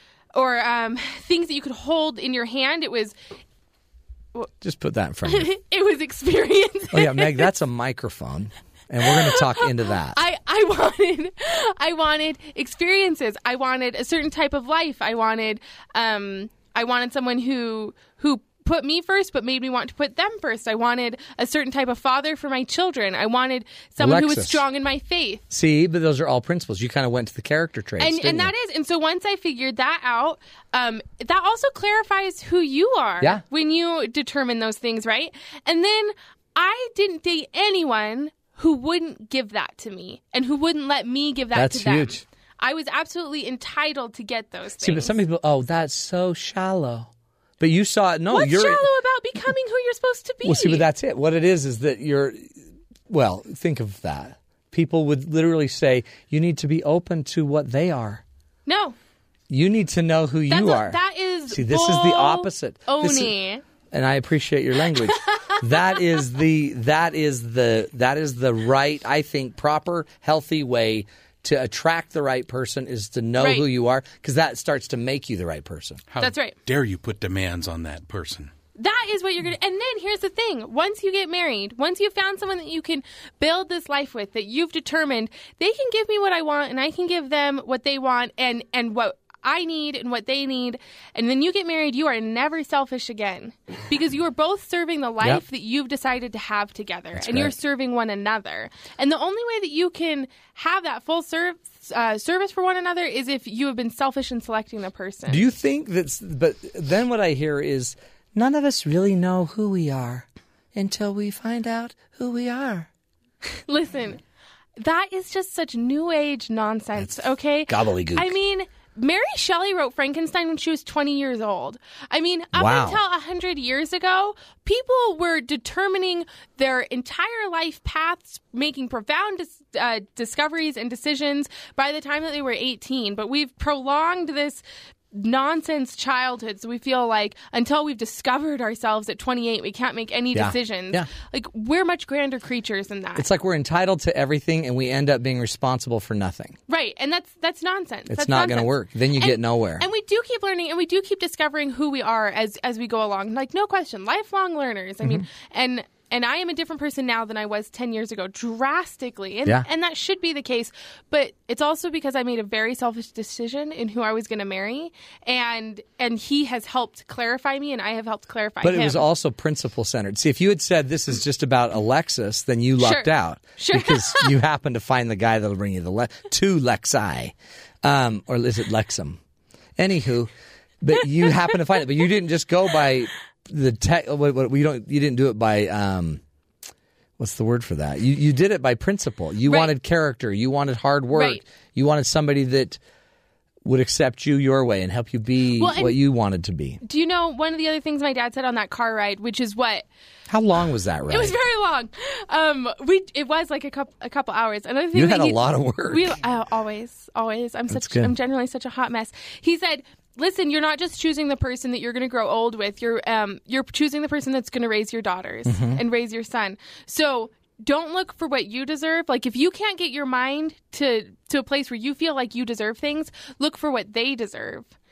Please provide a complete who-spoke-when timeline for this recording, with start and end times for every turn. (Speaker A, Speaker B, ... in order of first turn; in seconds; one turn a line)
Speaker A: 0.3-3.1
Speaker B: 4.6-5.5
Speaker A: 5.2-7.5
Speaker B: 6.9-10.2
Speaker A: 9.0-25.4
Speaker B: 24.0-24.6
Speaker B: 25.5-28.5
Speaker A: 28.0-45.1
Speaker B: 41.5-42.2
Speaker B: 44.8-48.8
Speaker A: 48.3-50.9
Speaker B: 50.4-52.5
Speaker B: 53.1-58.2
Speaker A: 58.6-59.0
Speaker B: 59.5-63.4
Speaker A: 60.5-63.6
Speaker B: 63.9-76.0
Speaker A: 64.9-65.6
Speaker A: 73.4-73.7
Speaker C: 76.1-78.5
Speaker A: 76.2-76.6
Speaker A: 78.7-105.4
Speaker B: 97.1-97.5
Speaker B: 105.3-112.9
Speaker A: 113.5-114.2
Speaker A: 114.8-143.3
Speaker B: 117.7-118.3
Speaker B: 122.5-123.0
Speaker B: 140.3-141.1
Speaker B: 143.2-146.6
Speaker A: 146.7-169.1
Speaker B: 148.1-149.9
Speaker B: 168.6-179.2
Speaker A: 172.8-174.3
Speaker B: 179.8-180.3
Speaker B: 180.8-186.2
Speaker B: 187.2-192.8
Speaker A: 189.4-189.7
Speaker A: 191.1-191.4
Speaker B: 193.6-196.8
Speaker A: 195.5-196.0
Speaker A: 196.8-199.9
Speaker B: 200.3-201.4
Speaker A: 201.1-224.7
Speaker B: 204.9-206.2
Speaker B: 207.7-208.1
Speaker B: 215.4-215.8